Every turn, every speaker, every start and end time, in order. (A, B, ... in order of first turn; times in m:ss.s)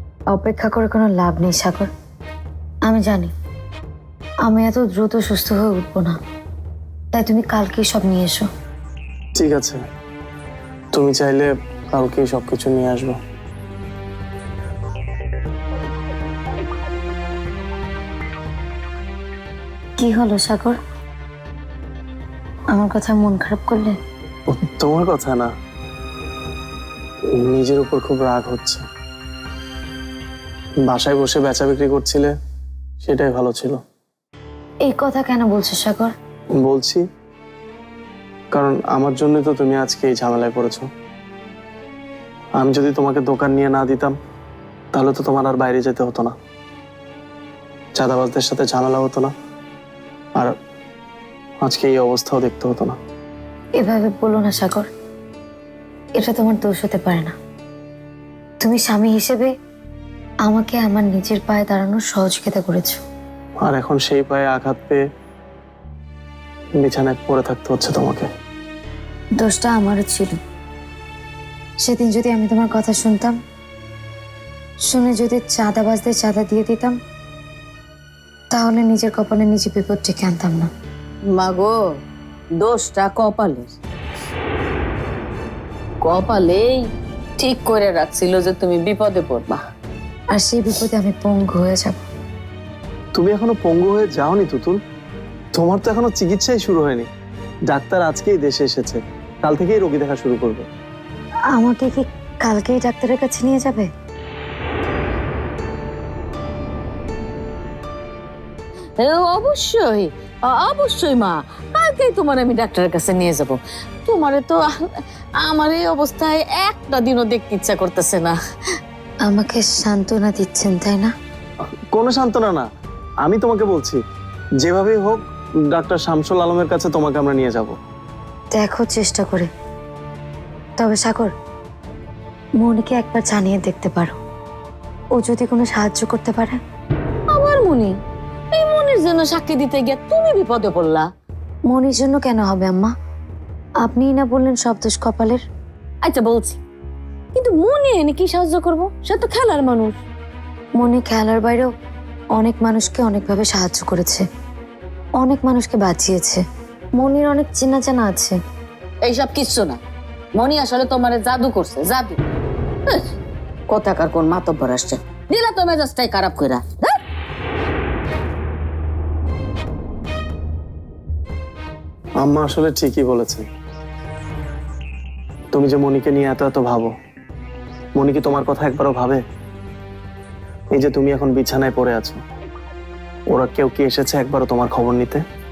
0:00.3-0:01.9 A
0:02.9-0:03.3 A
0:04.4-0:06.2 A
0:07.1-0:08.5 A
0:09.4-0:09.8 B
0:10.9-0:13.2 B
0:20.0-0:20.8 A
0:22.7-0:23.9 A
0:24.5-0:25.5 B
0:27.4-0:28.8 B
0:30.9-0:32.3 B
0:33.0-0:33.8 B
0:34.8-0:36.1 A
0:36.6-0:37.0 B
0:38.5-0:40.9 B
0:42.6-0:44.2 B
0:44.9-0:46.3 B
0:47.9-0:49.3 B
0:51.6-0:53.0 B
0:53.8-0:54.9 A
0:56.2-0:57.3 A
0:58.6-0:59.5 A
1:00.4-1:03.0 A
1:03.6-1:05.0 B
1:06.8-1:08.3 B
1:09.4-1:10.3 A
1:11.8-1:13.4 A
1:14.9-1:17.0 A
1:18.5-1:20.7 A
1:21.3-1:21.9 C
1:22.6-1:23.8 C
1:26.0-1:29.6 C
1:30.3-1:32.0 A
1:33.2-1:34.8 B
1:35.5-1:37.1 B
1:37.7-1:40.7 B
1:41.5-1:43.9 A
1:49.0-1:54.8 C
1:55.4-1:58.4 C
1:59.2-2:01.1 A
2:01.9-2:02.6 B
2:03.2-2:04.0 B
2:04.6-2:07.8 B
2:08.5-2:09.5 A
2:10.8-2:11.3 A
2:12.6-2:14.2 A
2:15.2-2:16.6 A
2:17.3-2:18.0 C
2:18.5-2:21.1 C
2:21.7-2:22.9 A
2:23.8-2:25.4 A
2:26.0-2:26.6 C
2:27.3-2:30.0 C
2:30.8-2:31.7 A
2:32.4-2:34.2 A
2:35.2-2:36.4 A
2:37.0-2:38.4 A
2:39.0-2:39.8 C
2:40.3-2:42.2 C
2:43.7-2:46.9 C
2:52.2-2:53.5 B
2:55.5-2:56.9 B
2:58.0-2:59.2 B
3:00.7-3:02.2 B
3:03.3-3:05.2 B